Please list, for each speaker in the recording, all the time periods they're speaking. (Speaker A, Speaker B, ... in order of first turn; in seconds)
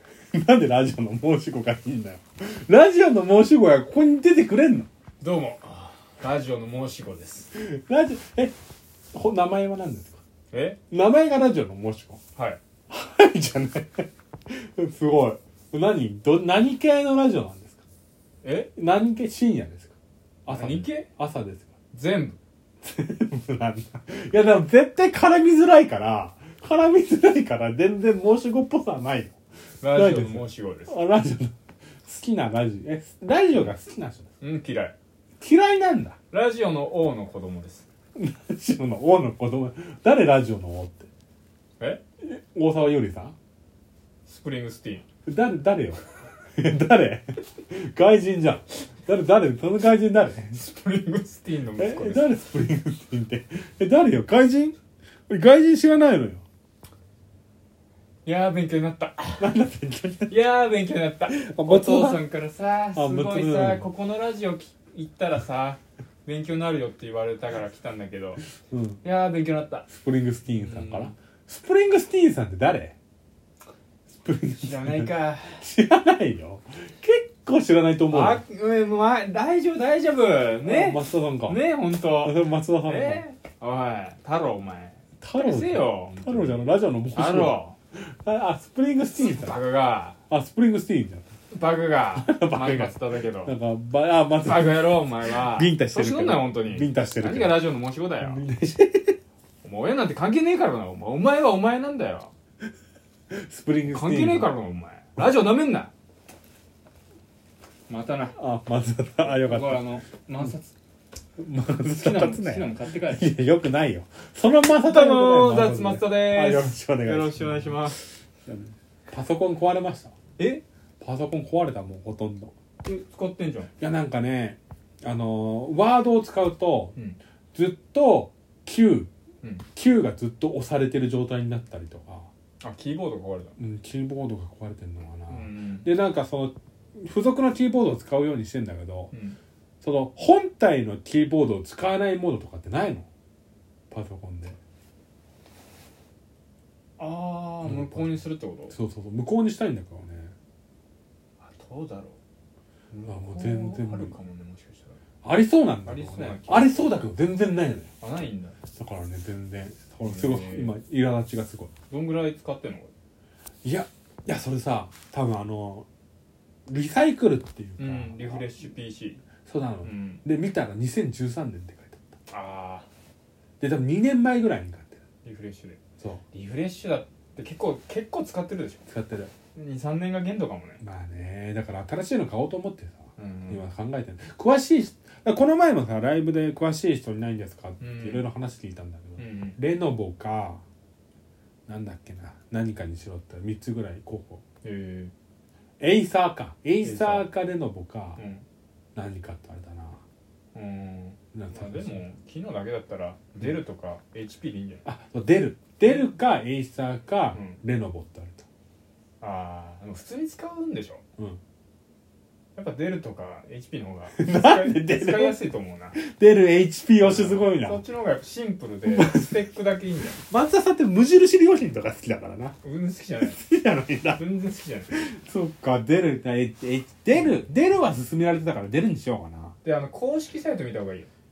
Speaker A: 0.3-4.9, 7.5-8.5, 9.1-10.2, 10.9-12.2, 12.9-17.8, 18.8-19.9, 20.5-21.7, 22.8-34.3, 35.4-36.2, 38.2-41.1, 42.2-43.4, 45.3-46.0, 46.5-50.6, 51.8-54.8, 55.3-56.5, 59.4-60.4, 61.3-62.2, 62.9-63.9, 68.7-69.0, 69.9-73.0, 74.2-78.4, 80.6-81.6, 82.2-83.2, 85.2-89.6, 90.3-91.3, 92.2-99.2, 103.3-104.5, 108.4-109.8, 111.4-117.9, 118.5-120.1, 121.0-122.5, 123.8-127.0, 127.5-129.1, 129.8-132.3, 133.6-139.1, 139.8-143.1, 143.9-144.6, 147.6-150.3, 153.1-154.2, 155.2-157.9, 158.7-161.7, 163.6-165.9, 166.7-168.5, 169.5-172.1, 173.6-175.0, 178.9-179.3, 180.8-190.6, 191.7-194.4, 195.8-198.2, 198.9-200.0, 201.3-202.1, 204.8-208.4, 214.1-215.4, 215.9-217.8, 218.9-219.4, 220.1-222.6, 223.2-224.3, 224.9-229.6
Speaker B: 5.2-7.5, 10.5-10.8, 12.3-12.6, 18.4-18.7, 20.5-21.1, 21.9-22.4, 29.8-31.0, 34.4-35.0, 36.3-37.9, 44.3-45.0, 50.5-52.3, 58.2-59.5, 60.3-68.4, 69.0-69.9, 70.5-71.1, 74.6-75.7, 78.1-87.8, 89.2-90.2, 91.5-93.5, 94.4-98.4, 99.6-102.3, 103.9-105.9, 107.9-108.4, 109.2-110.7, 111.8-113.3, 114.8-118.0, 120.4-120.6, 122.8-123.7, 132.6-133.6, 135.3-135.9, 139.1-139.4, 147.0-148.8, 151.4-152.2, 152.9-155.0, 155.8-156.8, 158.0-158.6, 160.0-160.8, 161.9-162.9, 167.8-169.2, 169.8-170.2, 172.3-172.9, 175.2-175.8, 176.3-178.9, 179.5-180.8, 183.2-183.7, 187.8-188.3, 189.2-189.6, 194.6-195.1, 196.8-197.3, 198.2-198.4, 200.5-204.8, 205.8-206.1, 207.3-207.6, 209.2-211.0, 212.6-216.0, 217.0-220.2, 222.6-223.4, 224.1-224.9, 227.2-227.4, 229.6-231.1